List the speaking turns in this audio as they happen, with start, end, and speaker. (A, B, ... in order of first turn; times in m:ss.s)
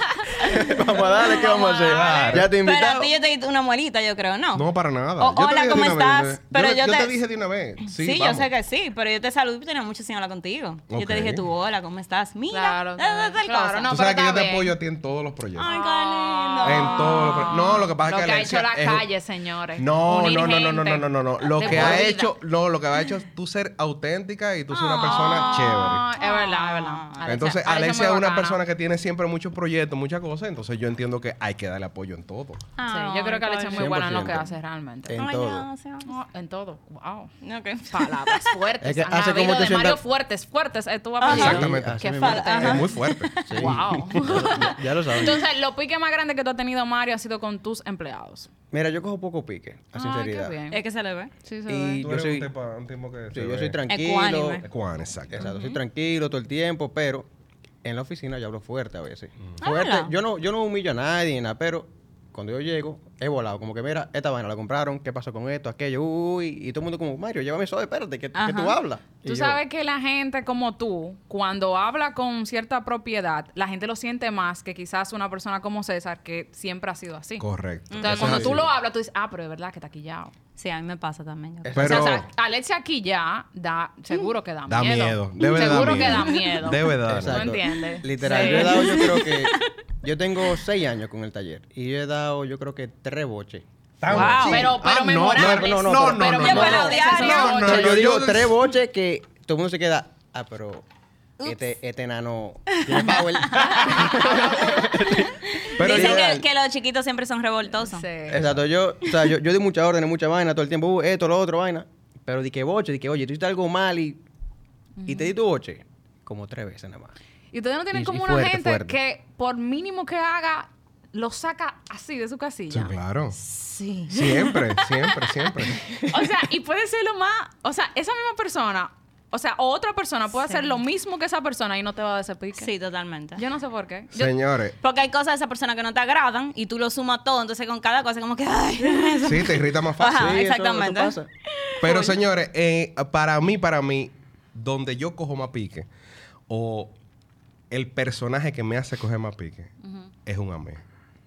0:00.4-0:03.1 A
0:00.6-0:01.2 B
0:00.9-0:02.5 C
0:01.5-0:01.8 D
0:01.8-0:02.5 B
0:02.5-0:07.1 D
0:04.6-0:08.5 B
0:07.9-0:13.9 D
0:10.9-0:11.4 B
0:12.5-0:14.8 C
0:13.9-0:15.7 B
0:15.6-0:17.9 D
0:15.6-0:22.3 C
0:16.6-0:19.1 B
0:19.8-0:26.0 B
0:21.7-0:22.0 D
0:24.7-0:27.2 D
0:25.1-0:28.6 C
0:27.2-0:32.6 B
0:32.8-0:34.4 D
0:32.9-0:35.2 C
0:33.7-0:34.5 A
0:35.1-0:35.7 A
0:35.1-0:36.1 D
0:36.0-0:37.3 C
0:37.4-0:38.5 D
0:37.9-0:43.0 C
0:38.8-0:40.0 A
0:41.2-0:41.6 D
0:41.3-0:42.7 A
0:41.3-0:44.5 B
0:42.2-0:43.5 D
0:43.4-0:45.4 A
0:43.5-0:48.5 C
0:48.7-0:50.6 A
0:49.9-0:50.8 C
0:50.7-0:51.3 D
0:51.4-0:52.1 C
0:51.7-0:52.5 A
0:52.0-0:53.8 B
0:53.3-0:54.6 A
0:53.9-0:54.6 D
0:54.6-0:55.5 B
0:55.3-0:57.3 A
0:57.8-1:09.6 A
0:59.6-1:00.1 D
1:08.4-1:08.8 D
1:09.2-1:17.4 C
1:17.4-1:18.7 B
1:17.9-1:18.5 D
1:18.0-1:20.3 C
1:18.1-1:18.6 A
1:20.6-1:21.8 D
1:21.6-1:22.2 A
1:21.8-1:22.3 B
1:21.8-1:29.3 C
1:24.7-1:27.6 B
1:25.6-1:26.6 D
1:27.0-1:34.8 A
1:28.2-1:29.6 D
1:34.0-1:38.5 B
1:34.1-1:34.7 D
1:34.4-1:38.0 C
1:35.3-1:36.9 A
1:36.4-1:37.8 D
1:37.5-1:40.9 A
1:41.4-1:46.4 A
1:42.8-1:43.9 D
1:43.6-1:45.2 C
1:45.6-1:48.1 D
1:45.8-1:46.3 B
1:47.8-1:48.4 C
1:48.3-1:54.2 A
1:48.3-1:48.6 B
1:55.0-1:55.3 C
1:55.1-1:57.1 A
1:57.5-2:05.2 C
1:57.9-1:59.0 A
2:02.7-2:03.4 B
2:03.7-2:04.0 D
2:04.1-2:06.1 B
2:06.0-2:12.7 C
2:10.5-2:10.7 D
2:12.6-2:13.4 D
2:13.4-2:14.3 C
2:14.1-2:14.8 B
2:14.8-2:22.2 D
2:19.2-2:20.4 B
2:20.1-2:21.3 A
2:21.8-2:25.9 B
2:26.5-2:27.0 B
2:27.7-2:29.7 B
2:29.8-2:30.1 C
2:30.2-2:30.8 B